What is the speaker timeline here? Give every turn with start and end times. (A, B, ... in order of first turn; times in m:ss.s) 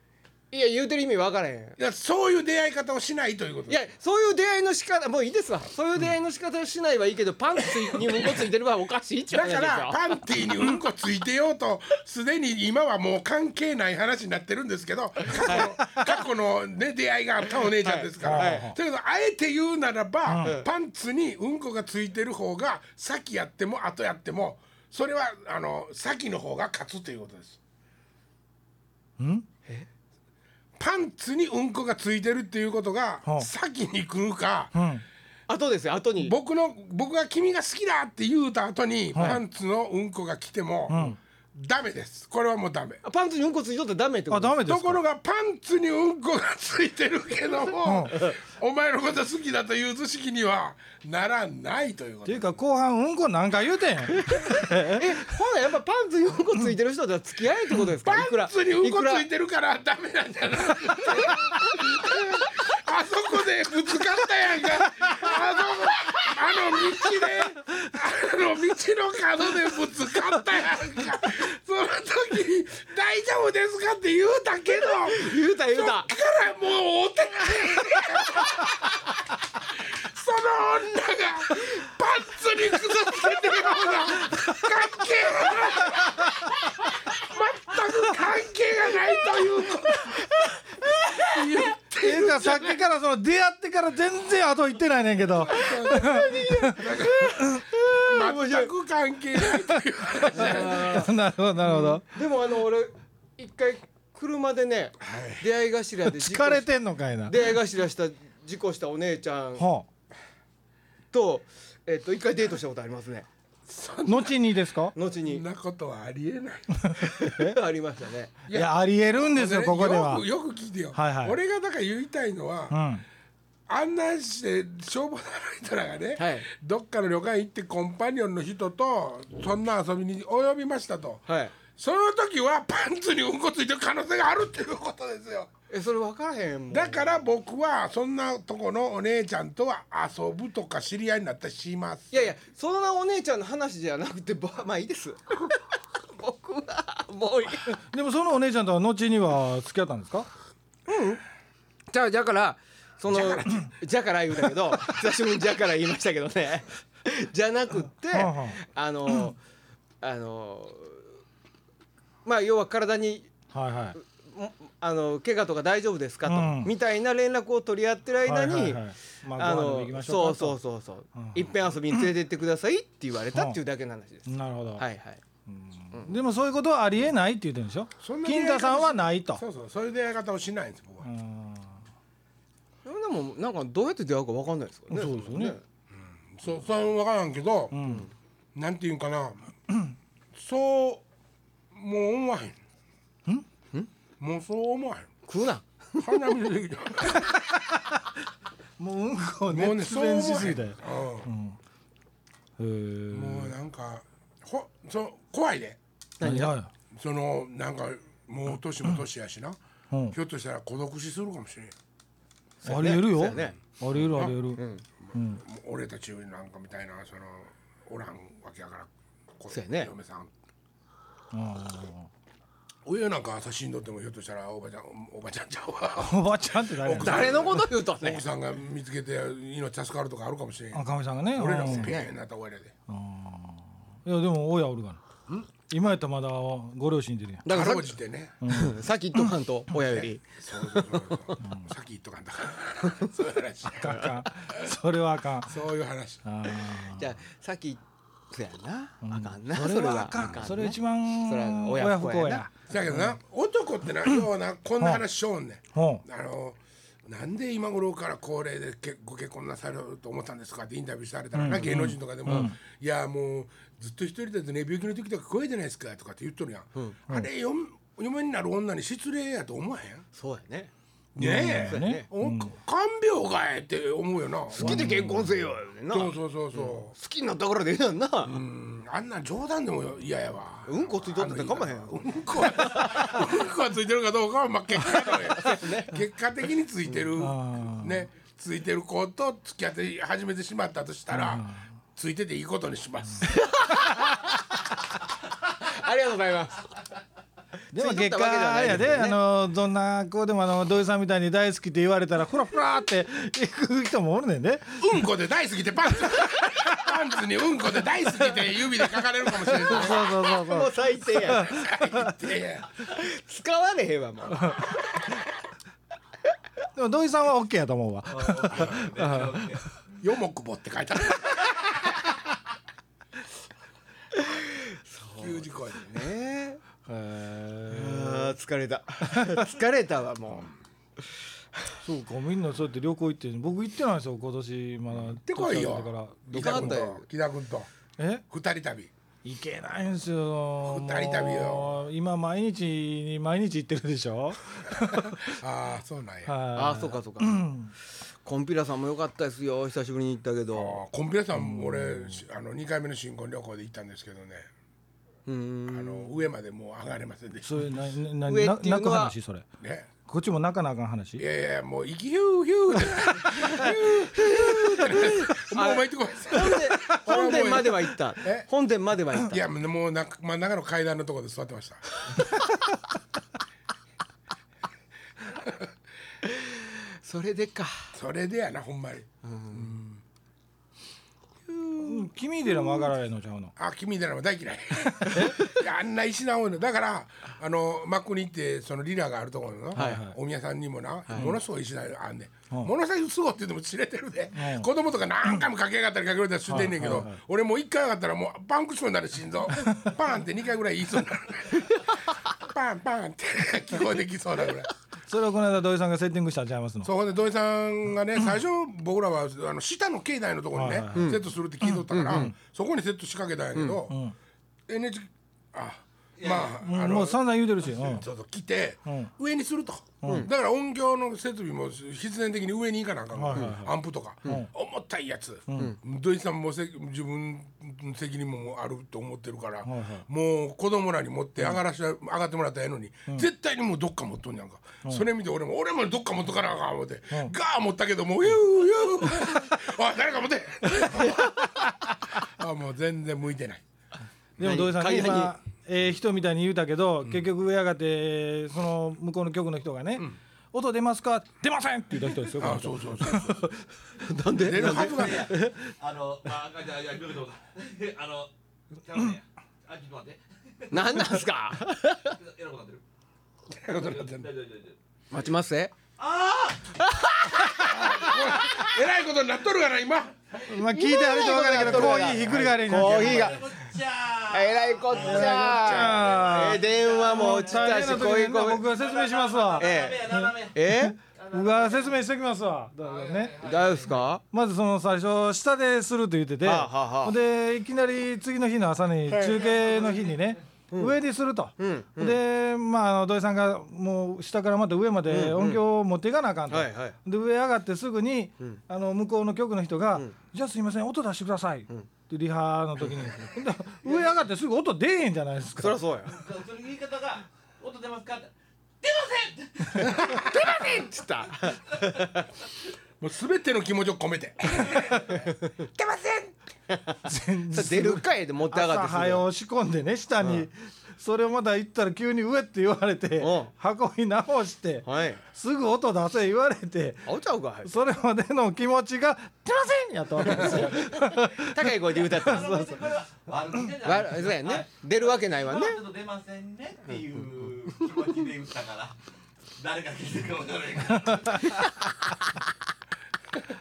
0:00.5-0:01.8 A
0:01.8-0:03.8 B
0:03.7-0:10.0 A
0:09.3-0:27.6 B
0:15.4-0:16.0 A
0:17.6-0:18.7 A
0:18.2-0:18.8 C
0:20.3-0:20.6 C
0:20.4-0:20.7 A
0:29.2-0:29.4 C
0:30.8-0:34.8 B
0:34.8-0:35.0 C
0:35.5-0:36.4 A
0:36.2-0:43.0 B
0:39.2-0:39.4 C
0:40.9-0:41.2 C
0:43.0-0:44.7 A
0:44.3-0:45.0 C
0:44.7-0:52.5 B
0:47.8-0:48.2 C
0:52.3-0:55.0 C
0:54.3-0:59.3 A
0:58.0-1:18.9 B
1:01.0-1:01.6 A
1:15.0-1:16.1 A
1:17.7-1:18.5 A
1:19.7-1:30.5 B
1:30.0-1:31.7 A
1:31.2-1:32.8 B
1:32.0-1:36.8 C
1:35.5-1:36.2 B
1:35.5-1:38.7 A
1:36.8-1:41.1 B
1:39.6-1:42.0 C
1:40.3-1:46.7 A
1:45.0-1:45.4 B
1:46.1-1:47.4 C
1:47.2-1:49.7 A
1:49.6-1:49.9 C
1:51.1-1:53.3 A
1:53.7-1:54.4 B
1:54.1-1:54.9 C
1:54.9-1:55.4 A
1:55.2-1:57.0 B
1:56.8-1:57.6 C
1:57.0-1:58.4 A
1:58.5-2:02.8 B
1:58.5-2:00.3 C
2:00.9-2:01.4 C
2:02.7-2:03.0 C
2:03.7-2:15.5 B
2:06.2-2:06.5 A
2:11.3-2:11.6 A
2:15.7-2:17.2 A
2:16.7-2:22.3 B
2:22.1-2:27.7 A
2:27.7-2:30.3 C
2:30.9-2:31.2 A
2:31.9-2:39.4 A
2:38.1-2:39.3 C
2:40.0-2:41.1 A
2:42.2-2:43.3 A
2:43.5-2:44.0 C
2:44.0-2:48.8 A
2:46.3-2:46.7 C
2:48.3-2:50.6 C
2:49.4-2:55.2 A
2:51.2-2:52.1 C
2:53.3-2:53.6 C
2:54.3-2:54.8 C
2:55.5-2:59.4 C
2:55.9-2:56.2 A
2:58.0-3:01.1 B
3:01.0-3:01.8 C
3:02.8-3:05.6 A
3:04.9-3:05.6 C
3:05.9-3:07.7 B
3:07.7-3:08.1 C
3:07.8-3:08.1 A
3:08.6-3:09.6 B
3:10.3-3:11.0 B
3:11.7-3:12.6 B
3:14.2-3:15.1 B
3:15.3-3:16.3 A
3:16.0-3:17.4 B
3:17.3-3:18.0 C
3:18.8-3:21.6 C
3:19.5-3:21.3 B
3:22.6-3:23.5 C
3:23.1-3:25.8 B
3:26.2-3:26.6 A
3:26.2-3:26.7 C
3:26.9-3:29.6 B
3:29.9-3:30.2 C
3:30.1-3:31.7 B
3:32.6-3:34.8 A
3:32.6-3:34.6 C
3:34.0-3:34.4 B
3:35.0-3:40.3 B
3:35.1-3:35.4 C
3:39.5-3:39.9 A
3:41.3-3:42.1 C
3:42.8-3:52.7 B
3:46.0-3:47.5 C
3:47.0-3:48.2 A
3:50.7-3:52.0 C
3:51.7-3:52.1 A
3:52.9-3:55.0 C
3:55.7-3:57.5 C
3:57.4-3:58.0 A
3:57.5-3:58.4 B
3:58.4-3:59.3 C
3:58.5-4:01.4 A
3:59.9-4:04.0 B
4:03.8-4:05.6 C
4:03.8-4:04.2 A
4:05.5-4:06.3 B
4:06.2-4:07.0 C
4:06.7-4:12.5 A
4:09.0-4:13.2 C
4:12.7-4:30.0 B
4:15.8-4:16.0 C
4:21.3-4:22.6 C
4:30.2-4:30.7 A
4:31.2-4:35.0 B
4:31.2-4:32.5 C
4:31.6-4:32.1 A
4:34.6-4:38.4 A
4:34.6-4:35.4 C
4:35.9-4:36.9 B
4:38.2-4:53.3 B
4:40.7-4:43.2 A
4:45.1-4:46.0 A
4:47.2-4:48.0 C
4:51.1-4:51.6 C
4:53.2-4:54.3 A
4:55.6-4:56.7 A
4:57.7-4:59.2 A
4:57.7-5:04.9 C
5:04.8-5:10.1 B
5:09.5-5:11.8 A
5:09.5-5:12.1 C
5:11.5-5:12.7 B
5:12.8-5:15.0 A
5:16.8-5:19.4 C
5:18.1-5:19.8 D
5:20.0-5:21.9 B
5:24.1-5:26.6 A
5:25.2-5:26.1 B
5:26.9-5:28.4 C
5:27.7-5:30.5 A
5:31.8-5:36.8 C
5:34.9-5:37.7 B
5:36.3-5:37.1 A
5:38.0-5:38.2 C
5:38.3-5:38.9 B
5:39.2-5:45.4 C
5:40.6-5:41.8 B
5:44.8-5:46.3 B
5:46.3-5:47.7 C
5:46.5-5:47.4 A
5:48.2-5:50.8 A
5:50.5-5:54.5 B
5:51.4-5:52.2 C
5:55.3-5:56.2 A
5:55.7-5:57.7 B
5:57.4-5:59.5 C
5:58.2-5:59.2 A
5:59.6-5:59.9 B
6:00.1-6:01.2 C
6:01.2-6:08.5 B
6:03.2-6:09.4 A
6:09.2-6:11.8 B
6:15.3-6:15.7 B
6:16.2-6:18.0 A
6:18.0-6:20.0 B
6:19.2-6:19.7 A
6:21.5-6:22.1 A
6:21.8-6:23.5 C
6:23.6-6:44.7 B
6:25.0-6:25.4 C
6:29.7-6:30.2 C
6:29.8-6:30.0 A
6:31.1-6:31.3 A
6:34.4-6:34.7 C
6:36.5-6:37.2 C
6:45.1-6:46.9 C
6:46.8-6:54.0 B
6:50.5-6:52.3 C
6:51.0-6:51.2 A
6:51.9-6:52.3 A
6:53.9-6:54.2 C
6:54.7-7:21.6 B
6:56.2-6:56.5 D
6:56.6-6:58.0 C
7:00.0-7:00.3 C
7:00.0-7:00.3 A
7:03.1-7:03.7 C
7:05.5-7:05.7 C
7:09.7-7:10.0 C
7:22.2-7:23.6 B
7:24.4-7:33.4 C
7:24.4-7:25.3 A
7:32.4-7:33.5 B
7:34.0-7:35.6 A
7:34.4-7:35.3 B
7:34.5-7:41.3 D
7:40.7-7:42.2 A
7:42.1-7:42.8 D
7:43.5-7:44.3 B
7:43.8-7:44.8 D
7:45.1-7:45.7 A
7:46.0-7:46.8 D
7:46.8-7:48.7 A
7:47.4-7:48.2 D
7:47.7-7:50.1 B
7:50.4-7:53.4 C
7:50.5-7:53.5 A
7:51.6-7:52.2 B
7:52.7-8:00.6 D
7:54.3-7:58.6 A
7:54.9-8:03.4 C
7:59.6-8:01.0 A
8:01.2-8:01.9 D
8:03.0-8:03.9 D
8:03.4-8:04.2 A
8:04.3-8:25.8 C
8:06.4-8:07.2 A
8:09.1-8:09.4 A
8:09.5-8:10.0 D
8:11.6-8:12.2 A
8:15.1-8:15.6 A
8:16.5-8:17.0 A
8:22.8-8:23.2 A
8:25.6-8:26.2 A
8:26.1-8:30.8 D
8:29.8-8:32.3 A
8:33.0-8:35.3 B
8:35.1-8:35.5 A
8:35.8-8:36.4 B
8:36.7-8:37.0 A
8:37.1-8:47.1 C
8:37.5-8:39.2 A
8:40.2-8:40.5 A
8:43.2-8:43.5 A
8:44.8-8:45.2 A
8:47.0-8:47.7 A
8:47.6-8:51.6 C
8:50.2-8:52.9 A
8:51.8-8:59.0 D
8:53.8-8:55.8 A
8:59.6-9:01.7 D